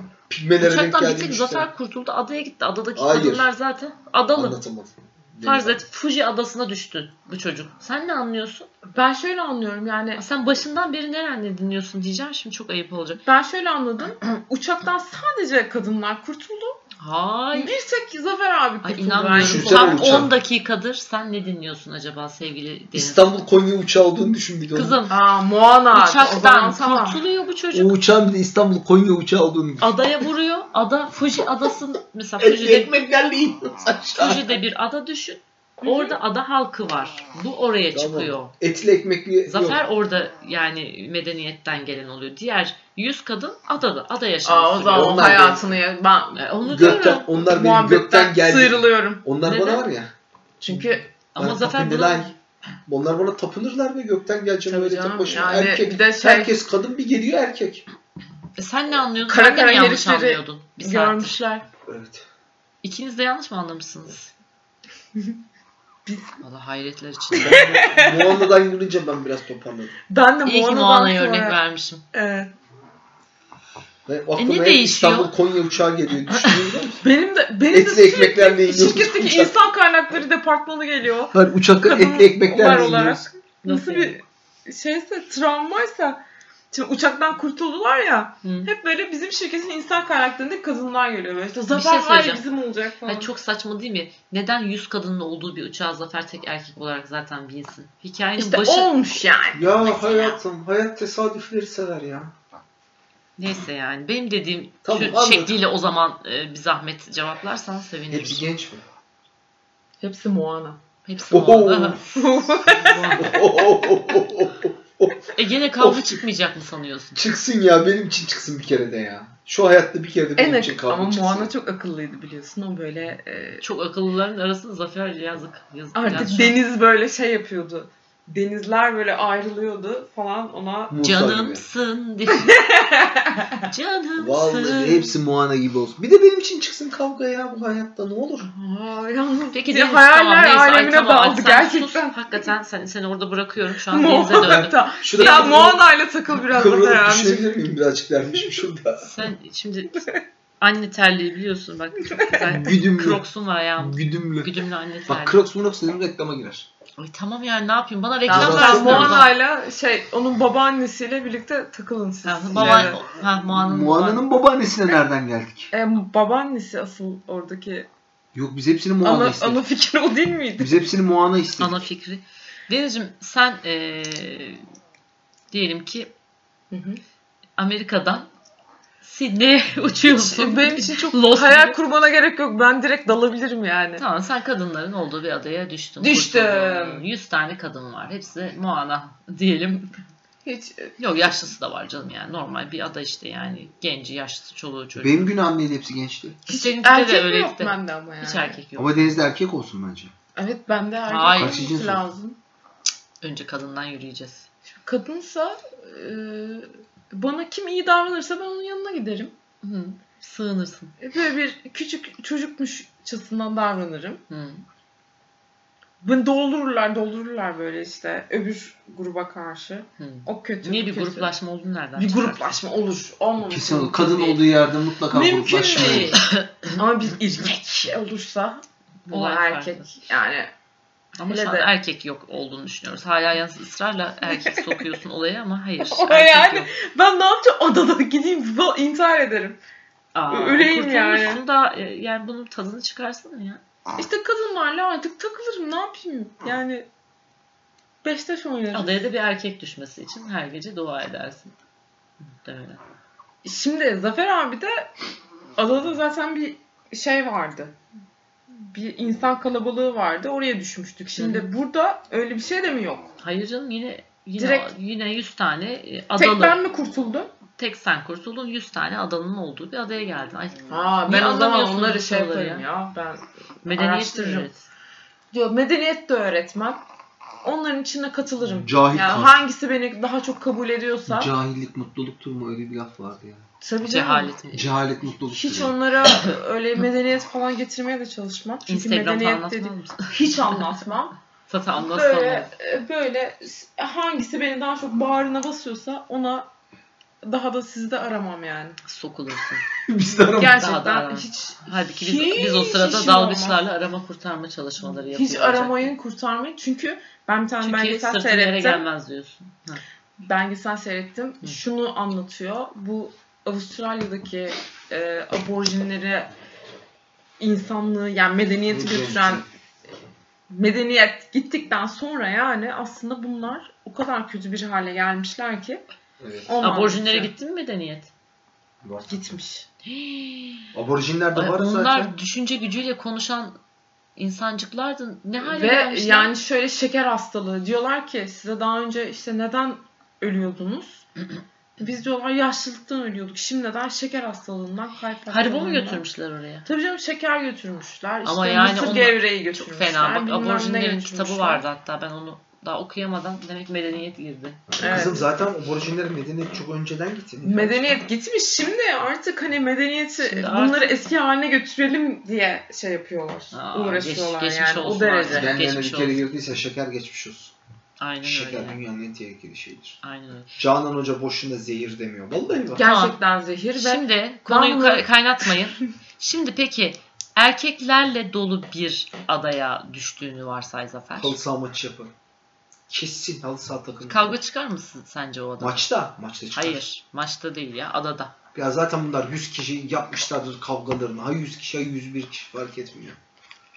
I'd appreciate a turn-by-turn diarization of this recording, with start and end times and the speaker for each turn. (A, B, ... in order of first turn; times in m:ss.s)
0:00.3-0:01.7 A
0:00.6-0:04.6 B
0:03.0-0:03.5 A
0:04.4-0:05.8 A
0:05.4-0:08.7 B
0:08.9-0:10.2 C
0:10.2-0:13.2 B
0:13.3-0:16.8 C
0:17.0-0:17.7 B
0:17.5-0:20.2 C
0:18.8-0:23.3 B
0:19.4-0:20.3 A
0:22.9-0:25.0 A
0:24.7-0:25.2 B
0:25.1-0:27.2 C
0:25.9-0:28.0 B
0:27.7-0:29.9 A
0:29.8-0:32.9 B
0:32.4-0:34.6 A
0:34.2-0:38.5 B
0:35.8-0:36.2 C
0:37.9-0:39.8 A
0:39.5-0:45.4 B
0:44.4-0:49.2 C
0:44.9-0:45.7 A
0:46.4-0:47.3 B
0:46.6-0:50.1 A
0:49.4-0:49.8 B
0:50.6-0:51.0 C
0:50.7-0:52.3 A
0:51.4-0:52.3 B
0:52.9-0:57.8 A
0:54.7-0:56.5 C
0:58.6-1:01.4 B
0:59.2-1:01.7 C
1:01.9-1:02.3 A
1:02.8-1:04.3 B
1:06.1-1:06.4 C
1:06.4-1:08.1 B
1:07.4-1:10.0 A
1:07.4-1:08.4 C
1:10.1-1:11.6 C
1:10.4-1:12.0 B
1:12.1-1:12.5 C
1:14.1-1:17.0 A
1:14.4-1:15.3 B
1:17.0-1:33.3 C
1:17.7-1:19.6 A
1:21.3-1:23.2 A
1:23.6-1:24.2 B
1:28.4-1:28.7 B
1:31.7-1:32.4 B
1:33.1-1:39.0 B
1:38.4-1:40.2 C
1:39.5-1:42.3 A
1:43.4-1:48.4 B
1:44.8-1:45.6 A
1:48.1-1:48.8 A
1:50.0-1:50.8 C
1:51.0-1:53.3 B
1:51.3-1:52.0 A
1:52.1-1:53.4 C
1:53.1-1:55.2 A
1:55.3-1:57.2 B
1:55.8-1:56.2 A
1:57.2-2:01.5 A
2:00.4-2:03.6 C
2:03.6-2:06.6 B
2:06.0-2:11.0 C
2:10.9-2:11.6 A
2:11.0-2:12.5 B
2:12.3-2:13.7 C
2:13.7-2:15.1 B
2:14.2-2:18.5 A
2:18.4-2:22.4 C
2:19.5-2:25.6 B
2:23.9-2:27.5 C
2:24.4-2:25.8 A
2:26.5-2:29.1 A
2:29.0-2:30.0 B
2:30.6-2:35.4 B
2:32.5-2:33.2 A
2:33.8-2:34.5 A
2:35.1-2:36.7 A
2:37.0-2:39.3 B
2:38.3-2:39.2 A
2:38.3-2:43.0 C
2:42.2-2:44.2 B
2:42.5-2:45.7 A
2:45.7-2:47.9 C
2:48.3-2:49.6 A
2:49.0-2:50.8 C
2:50.6-2:51.8 A
2:51.6-2:54.6 B
2:55.5-2:56.1 B
2:56.7-2:57.0 C
2:57.6-2:58.3 B
2:59.0-3:01.8 B
3:00.1-3:04.0 C
3:04.0-3:09.9 B
3:06.0-3:07.0 C
3:10.4-3:11.0 C
3:11.0-3:15.3 B
3:15.0-3:16.4 A
3:16.5-3:18.6 C
3:16.5-3:19.2 B
3:18.8-3:20.1 A
3:20.4-3:22.4 C
3:21.1-3:21.6 B
3:21.4-3:22.0 A
3:23.2-3:24.5 B
3:24.7-3:29.3 C
3:29.6-3:30.9 B
3:31.0-3:34.2 C
3:34.3-3:34.6 B
3:36.0-3:41.3 C
3:40.0-3:42.6 B
3:42.0-3:44.6 C
3:43.5-3:46.2 A
3:45.1-3:50.5 C
3:46.1-3:46.8 B
3:49.1-3:49.9 B
3:51.2-3:56.7 B
3:51.3-3:51.7 C
3:54.2-3:54.9 C
3:55.8-3:59.6 C
4:00.1-4:03.6 B
4:00.3-4:01.4 C
4:04.0-4:06.9 C
4:08.0-4:09.0 C
4:08.7-4:11.5 B
4:12.2-4:12.8 B
4:13.4-4:14.9 C
4:15.6-4:17.8 C
4:18.6-4:23.1 C
4:21.2-4:21.5 B
4:23.2-4:26.6 B
4:24.4-4:24.7 C
4:26.2-4:27.3 C
4:27.6-4:32.7 B
4:30.7-4:34.5 C
4:33.6-4:34.6 B
4:35.3-4:36.8 C
4:37.4-4:41.3 C
4:38.4-4:39.4 A
4:41.1-4:43.4 A
4:43.6-4:44.4 C
4:43.9-4:44.7 B
4:44.5-4:45.8 A
4:45.3-4:51.1 C
4:48.7-4:50.3 B
4:51.5-4:52.5 B
4:51.8-4:56.5 C
4:57.2-4:58.8 C
4:58.8-4:59.6 B
4:59.8-5:00.6 A
5:00.4-5:03.6 C
5:00.5-5:05.9 B
5:04.8-5:08.8 C
5:07.6-5:09.8 B
5:10.2-5:16.3 C
5:17.4-5:19.5 C
5:18.7-5:19.5 A
5:20.5-5:25.8 C
5:26.2-5:26.5 A
5:26.5-5:27.3 C
5:26.6-5:28.1 B
5:28.8-5:29.4 A
5:29.1-5:29.7 C
5:29.9-5:30.7 B
5:30.7-5:32.1 A
5:31.4-5:33.6 B
5:34.2-5:36.3 B
5:35.4-5:41.1 C
5:41.8-5:46.0 C
5:45.3-5:46.7 B
5:46.7-5:51.6 C
5:48.2-5:54.7 B
5:54.8-5:55.3 C
5:54.8-5:58.0 A
5:57.4-6:05.5 C
6:00.2-6:00.9 B
6:03.5-6:06.3 B
6:05.3-6:07.5 A
6:08.0-6:08.8 B
6:08.2-6:10.0 A
6:10.0-6:10.6 B
6:10.6-6:12.8 A
6:12.8-6:15.5 C
6:12.8-6:13.2 B
6:13.8-6:21.4 B
6:21.2-6:22.1 A
6:22.9-6:24.4 A
6:24.1-6:25.9 B
6:25.6-6:26.8 A
6:26.5-6:28.3 B
6:28.6-6:33.2 A